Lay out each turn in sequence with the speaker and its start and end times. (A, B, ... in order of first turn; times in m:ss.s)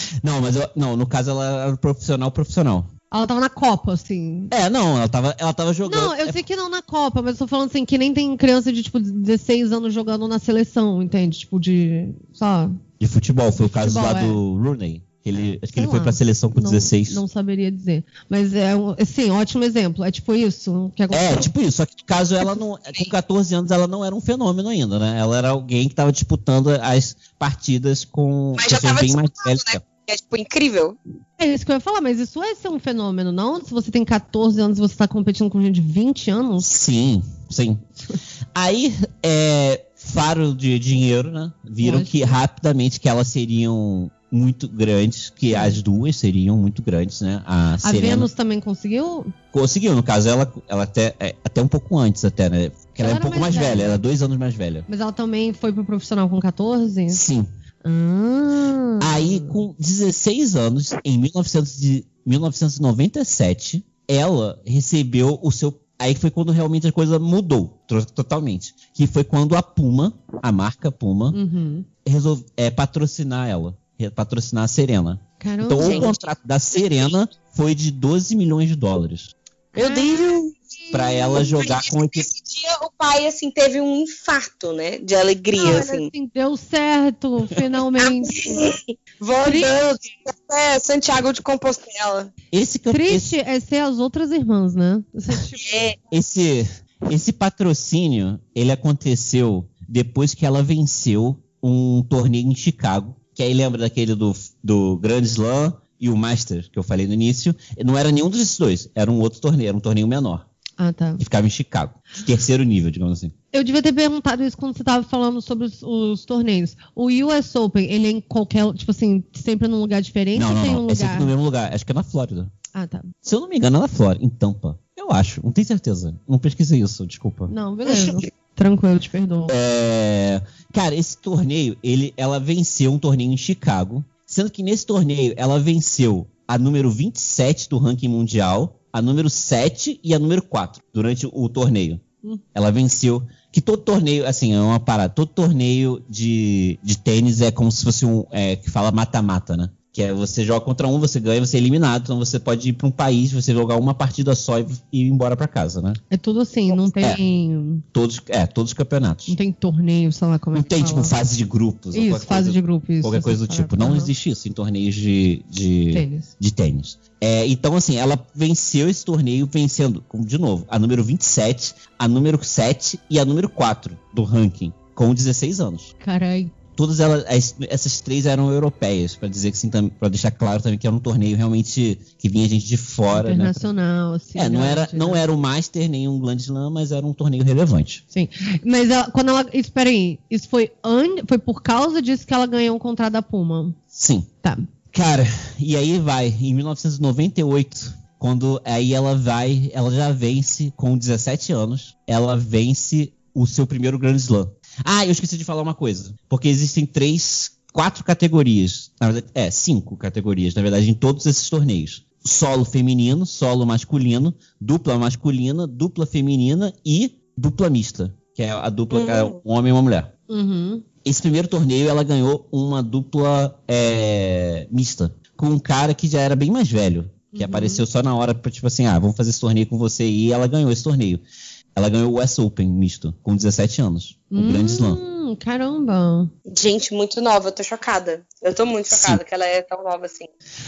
0:00.2-0:02.9 A
0:03.1-0:04.5 B
0:04.5-0:06.4 A
0:05.9-0:12.8 B
0:13.0-0:17.2 A
0:13.7-0:14.4 B
0:15.7-0:21.5 B
0:21.1-0:29.8 A
0:28.6-0:31.0 C
0:31.4-0:36.7 B
0:36.6-0:37.8 A
0:38.6-0:48.3 A
0:41.8-0:42.4 B
0:45.5-0:45.8 B
0:47.8-0:49.3 B
0:49.5-0:54.9 A
0:53.0-0:54.0 B
0:54.9-0:57.2 B
0:57.1-0:57.5 A
0:57.8-0:59.5 B
0:59.0-1:11.4 A
1:11.3-1:11.9 B
1:12.0-1:19.3 A
1:15.4-1:16.1 B
1:15.8-1:16.1 C
1:19.8-1:20.2 B
1:19.8-1:20.7 C
1:20.9-1:22.3 A
1:21.3-1:26.1 C
1:25.6-1:28.7 B
1:28.0-1:32.3 C
1:29.4-1:29.8 B
1:32.5-1:33.4 A
1:32.9-1:35.7 B
1:35.6-1:36.0 C
1:36.1-1:50.5 A
1:50.8-1:51.2 B
1:51.2-1:53.3 A
1:53.5-2:01.3 B
2:00.3-2:02.5 A
2:02.7-2:03.1 B
2:03.2-2:07.5 A
2:07.5-2:09.5 B
2:09.5-2:22.0 A
2:22.5-2:36.0 A
2:36.1-2:37.8 B
2:37.9-2:39.4 A
2:39.3-2:41.1 B
2:40.6-2:55.9 A
2:41.9-2:44.1 B
2:45.9-2:46.3 B
2:56.0-2:56.5 B
2:56.8-3:03.7 A
3:03.1-3:05.2 B
3:04.4-3:08.0 A
3:08.1-3:13.8 B
3:13.9-3:14.3 A
3:14.9-3:40.1 A
3:38.9-3:39.4 C
3:40.3-3:40.8 B
3:41.0-3:51.2 A
3:47.3-3:47.8 B
3:51.8-3:55.0 A
3:54.3-3:56.3 B
3:56.5-4:00.3 C
3:58.9-3:59.2 A